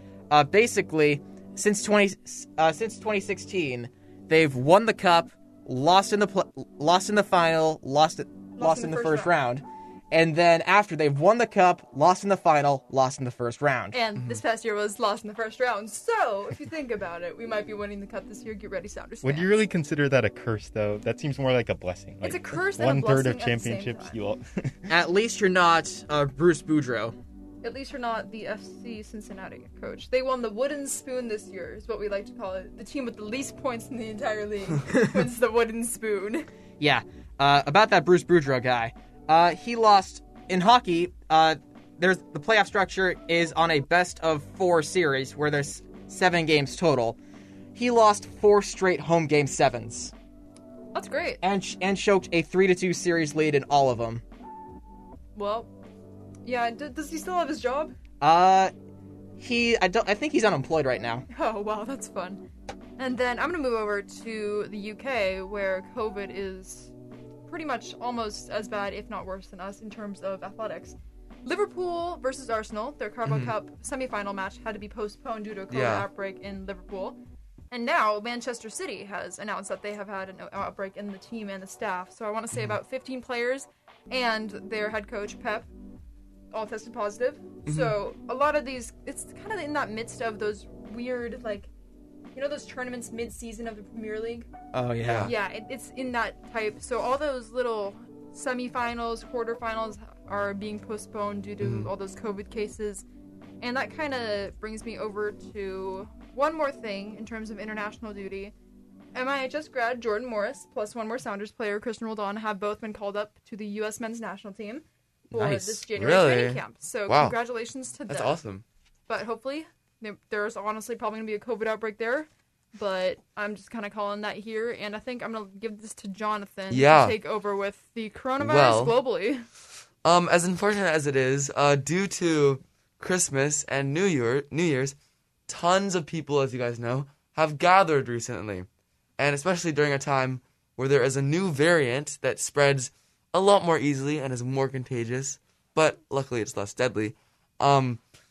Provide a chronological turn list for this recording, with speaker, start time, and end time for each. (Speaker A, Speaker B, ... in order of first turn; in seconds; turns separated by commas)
Speaker A: 0.3-14.0, Speaker B: 8.6-9.3, Speaker B: 13.9-19.6, Speaker C: 19.2-24.9, Speaker B: 22.2-24.2, Speaker A: 24.9-27.1, Speaker B: 27.6-36.5, Speaker A: 34.9-35.2, Speaker A: 36.8-47.2, Speaker A: 47.7-50.1, Speaker B: 50.9-51.4, Speaker A: 51.4-54.2, Speaker B: 55.4-55.7, Speaker B: 56.5-57.9, Speaker A: 58.2-58.7, Speaker A: 59.4-61.3, Speaker B: 61.3-62.4, Speaker B: 63.0-66.9, Speaker B: 67.5-77.2, Speaker D: 73.3-73.5, Speaker D: 75.7-76.1, Speaker B: 77.7-85.7, Speaker B: 86.5-91.7, Speaker D: 87.7-88.0, Speaker B: 92.3-94.5, Speaker A: 94.7-95.3, Speaker D: 95.0-95.3, Speaker B: 95.2-103.1, Speaker D: 101.6-101.9, Speaker B: 103.6-108.5, Speaker B: 109.1-118.4, Speaker A: 115.3-115.8, Speaker D: 115.5-117.4, Speaker D: 118.1-118.7, Speaker B: 119.1-129.4, Speaker D: 126.7-127.2, Speaker D: 128.4-129.0, Speaker D: 130.0-134.9, Speaker D: 135.5-138.7, Speaker D: 139.2-148.0